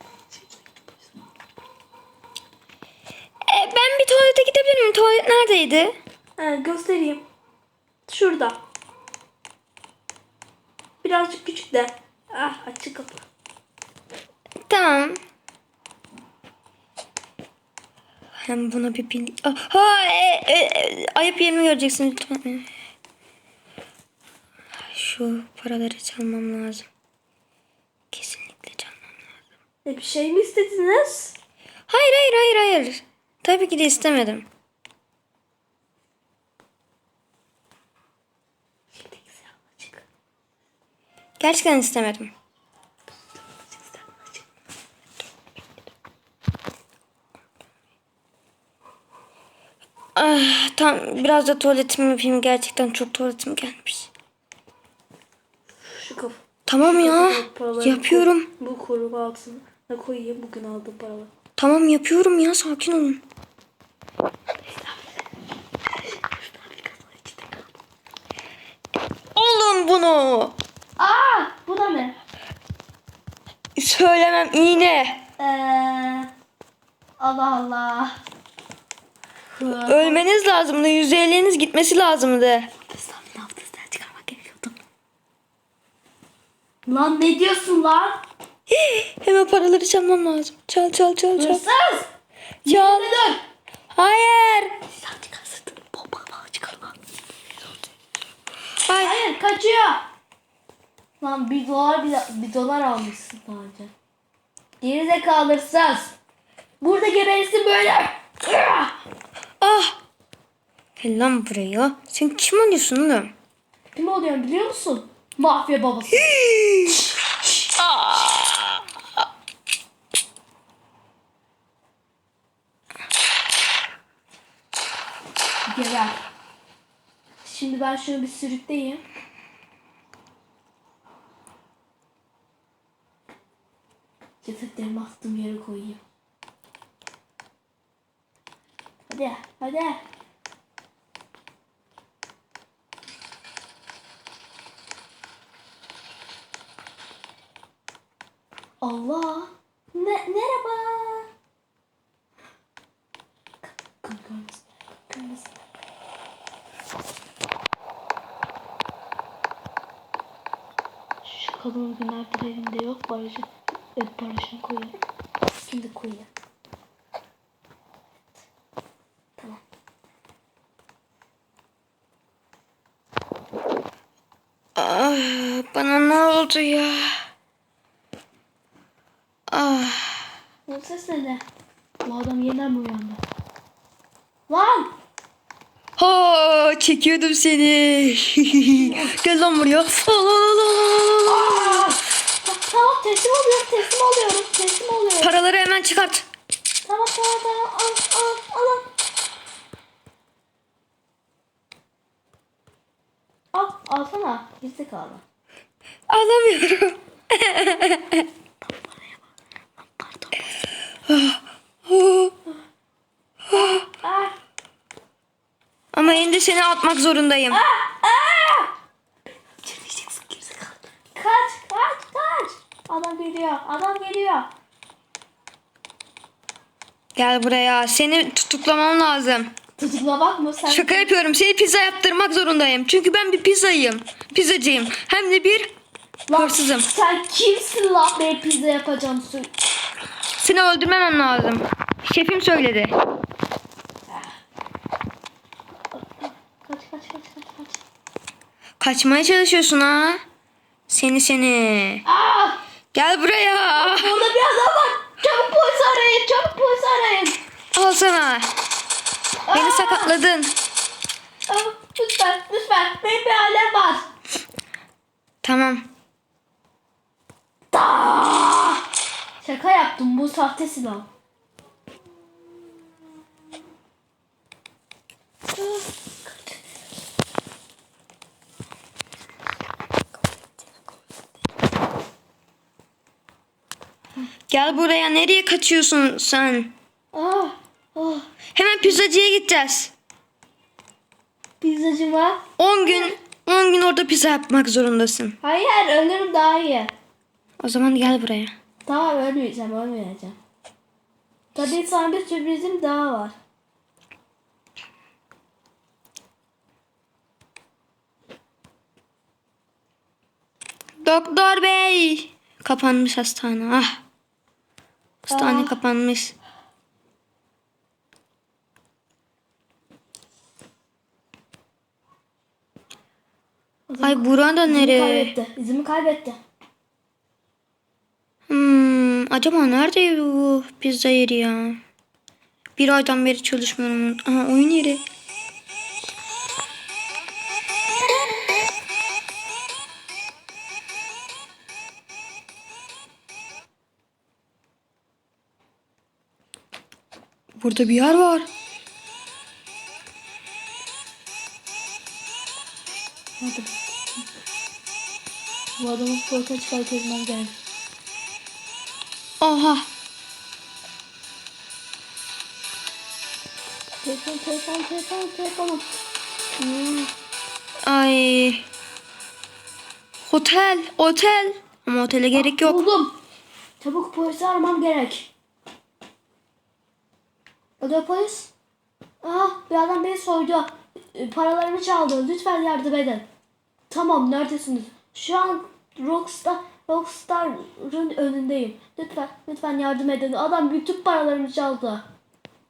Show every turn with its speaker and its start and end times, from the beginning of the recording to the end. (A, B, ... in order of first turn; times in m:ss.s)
0:00.3-0:01.0 A
0:03.5-0:06.0 B
0:06.4-0:07.2 A
0:08.1-0:08.6 A
0:11.0-0:13.2 A
0:14.6-0:15.2 B
0:18.4-0:22.7 B
0:24.9-0:26.9 B
0:28.1-0:29.0 B
0:29.8-0:31.4 A
0:31.9-0:34.4 B
0:38.9-0:40.0 A
0:41.4-0:42.3 B
0:43.8-0:44.3 A
0:50.2-0:54.1 B
0:55.8-1:01.3 A
0:56.6-0:58.5 B
1:01.6-1:03.2 B
1:06.2-1:07.6 A
1:09.3-1:10.5 B
1:11.0-1:12.2 A
1:13.8-1:15.2 B
1:15.4-1:16.3 A
1:17.2-1:18.2 A
1:19.5-1:20.3 A
1:19.8-1:22.7 B
1:22.8-1:24.7 A
1:26.8-1:28.2 A
1:28.7-1:31.6 B
1:31.4-1:32.1 A
1:32.6-1:33.1 B
1:32.6-1:33.4 A
1:33.9-1:34.8 B
1:34.9-1:37.0 A
1:38.8-1:39.2 B
1:39.0-1:40.0 A
1:41.2-1:43.9 A
1:44.8-1:46.1 A
1:46.8-1:49.0 A
1:49.6-1:50.0 B
1:51.0-1:53.3 B
1:53.9-1:56.3 A
1:56.3-1:57.0 B
1:57.8-1:58.8 B
2:05.7-2:06.2 A
2:07.4-2:09.0 A
2:14.4-2:16.0 A
2:19.1-2:20.0 A
2:28.8-2:31.3 A
2:33.6-2:35.6 A
2:41.2-2:44.9 A
2:45.6-2:46.3 A
2:54.8-2:57.2 B
2:59.5-3:00.3 B
3:00.6-3:01.4 A
3:02.0-3:03.2 A
3:04.5-3:04.9 A
3:06.0-3:12.0 B
3:08.7-3:09.1 A
3:11.3-3:15.4 A
3:15.2-3:16.2 B
3:16.8-3:18.9 A
3:23.5-3:25.2 A
3:26.1-3:28.3 B
3:28.6-3:29.2 A
3:29.8-3:30.4 A
3:31.1-3:32.3 B
3:33.5-3:33.8 B
3:33.5-3:34.3 A
3:35.9-3:37.6 B
3:37.5-3:38.7 A
3:39.6-3:44.5 A
3:47.2-3:49.5 B
3:49.8-3:51.1 A
3:50.6-3:55.7 B
3:56.3-3:59.5 A
3:56.3-3:56.9 B
4:00.4-4:03.0 B
4:05.9-4:07.8 A
4:08.8-4:10.2 B
4:10.9-4:12.0 B
4:12.0-4:12.6 A
4:12.9-4:14.2 B
4:13.7-4:17.4 A
4:17.7-4:18.5 B
4:19.4-4:20.2 A
4:19.5-4:20.5 B
4:21.5-4:24.1 A
4:25.4-4:25.9 B
4:27.7-4:28.8 A
4:29.4-4:31.1 A
4:35.6-4:36.3 A
4:44.5-4:46.7 B
4:47.1-4:48.2 A
4:48.5-4:49.9 B
4:51.6-4:53.2 A
4:52.6-4:55.4 B
4:55.4-4:56.9 A
4:57.6-4:58.5 B
4:58.8-5:00.4 A
5:01.5-5:03.4 A
5:11.0-5:14.0 B
5:15.2-5:16.3 B
5:15.3-5:15.8 A
5:23.9-5:26.4 A
5:24.0-5:25.3 B
5:28.5-5:31.8 B
5:32.8-5:35.0 B
5:47.6-5:48.5 B
5:53.4-5:54.2 A
5:55.8-5:57.5 A
5:59.4-5:59.9 B
6:04.0-6:05.9 A
6:06.6-6:07.1 A
6:07.8-6:08.6 B
6:10.2-6:12.8 B
6:12.3-6:13.1 A
6:13.8-6:15.3 A
6:17.8-6:18.5 A
6:19.2-6:23.2 A
6:23.9-6:32.0 A